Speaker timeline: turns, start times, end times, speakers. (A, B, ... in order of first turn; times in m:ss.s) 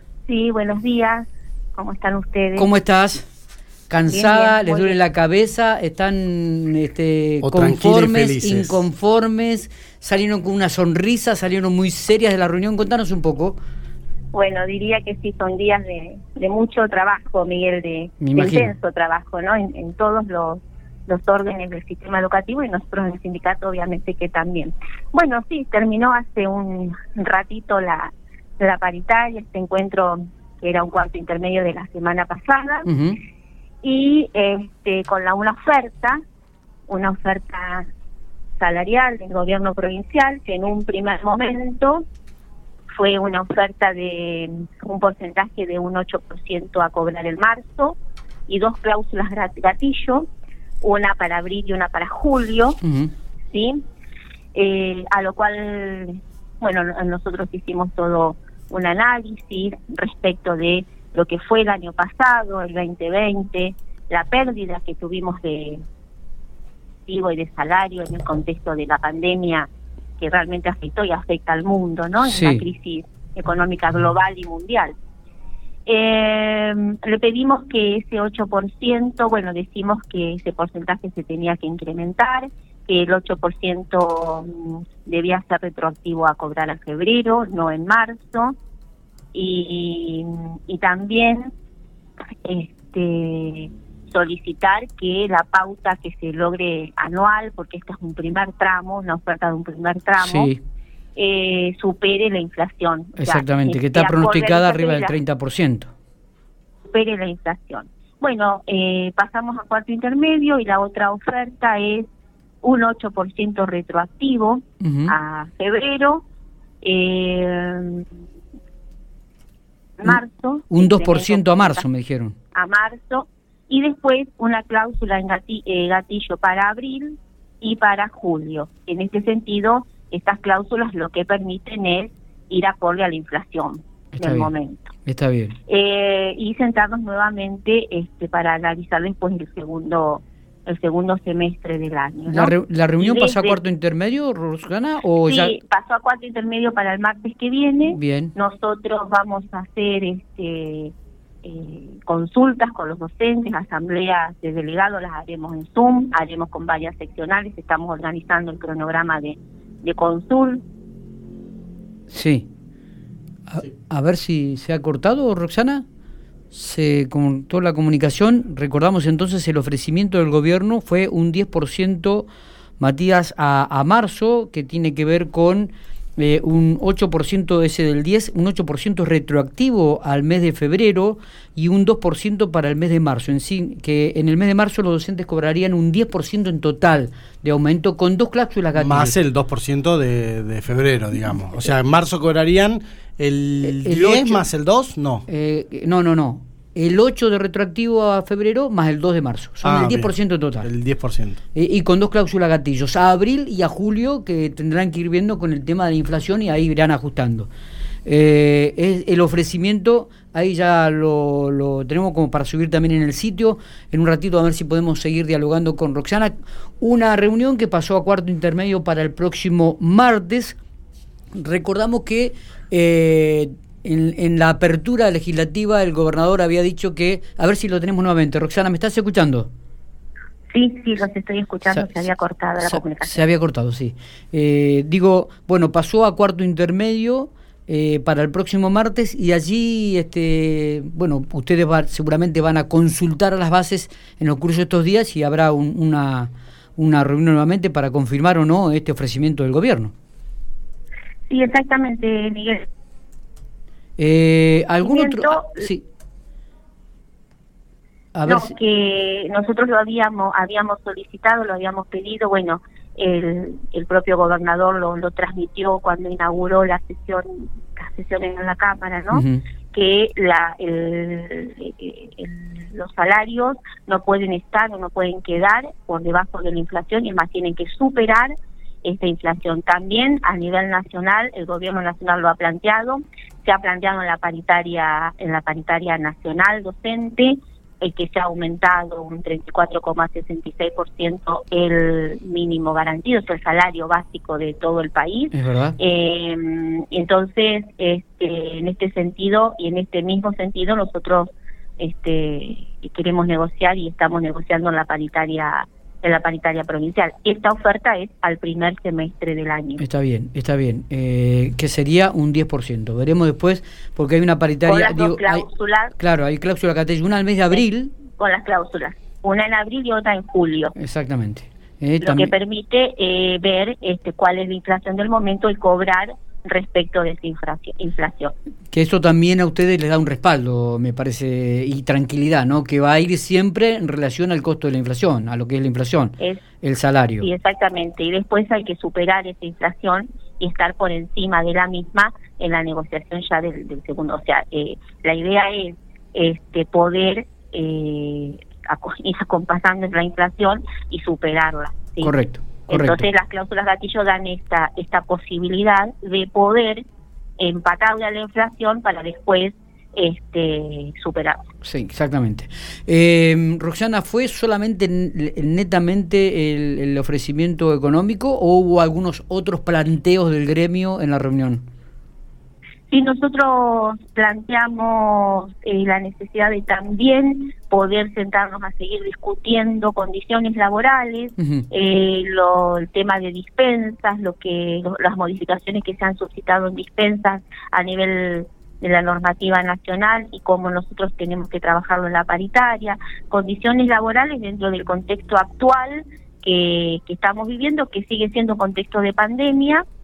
0:00.3-0:02.7 A
0:02.6-0:03.2 B
0:03.9-0:13.6 B
0:04.1-0:05.0 A
0:07.4-0:08.8 C
0:14.3-0:32.9 A
0:18.2-0:18.7 B
0:32.8-0:33.2 B
0:33.8-0:36.2 A
0:36.9-0:37.9 A
0:38.6-0:42.0 A
0:42.9-0:48.0 A
0:48.5-0:50.3 A
0:50.8-0:52.8 A
0:52.8-0:53.1 B
0:53.5-0:53.8 A
0:54.5-1:05.8 A
1:07.1-1:09.7 A
1:10.2-1:14.9 A
1:12.2-1:12.6 B
1:15.8-1:28.5 A
1:29.3-1:31.5 A
1:32.4-1:40.5 A
1:40.2-1:40.6 B
1:41.2-1:45.2 A
1:43.2-1:45.9 B
1:46.9-1:52.1 A
1:52.6-1:56.2 A
1:54.8-1:55.1 B
1:56.8-1:58.0 A
2:00.0-2:01.8 A
2:00.7-2:02.3 B
2:02.5-2:14.9 A
2:14.1-2:14.5 B
2:15.0-2:15.6 B
2:15.7-2:23.6 A
2:22.3-2:25.6 B
2:25.2-2:30.9 A
2:27.9-2:28.3 B
2:31.4-2:40.6 A
2:42.1-2:42.5 B
2:43.5-2:45.8 B
2:46.5-2:52.3 B
2:52.8-3:09.2 B
3:08.8-3:15.2 C
3:13.6-3:14.4 B
3:15.3-3:20.7 B
3:19.6-3:20.1 C
3:20.6-3:21.4 C
3:21.5-3:27.5 B
3:28.0-3:40.6 B
3:41.3-3:49.5 B
3:50.5-3:53.2 A
3:51.7-3:52.0 B
3:52.6-4:09.9 B
4:11.3-4:12.6 A
4:14.0-4:15.8 B
4:14.8-4:15.6 A
4:18.1-4:18.5 B
4:18.3-4:38.3 A
4:29.1-4:29.4 B
4:38.8-5:09.8 A
4:55.3-4:55.8 B
5:09.8-5:15.4 B
5:14.7-5:15.9 A
5:16.0-5:17.9 B
5:18.1-5:20.7 A
5:20.8-5:22.3 B
5:22.0-5:28.3 A
5:28.7-5:37.3 B
5:37.2-5:52.1 A
5:52.0-5:53.0 B
5:52.7-5:56.8 A
5:57.4-6:01.4 A
6:01.6-6:11.6 B
6:12.9-6:39.8 A
6:21.4-6:21.6 B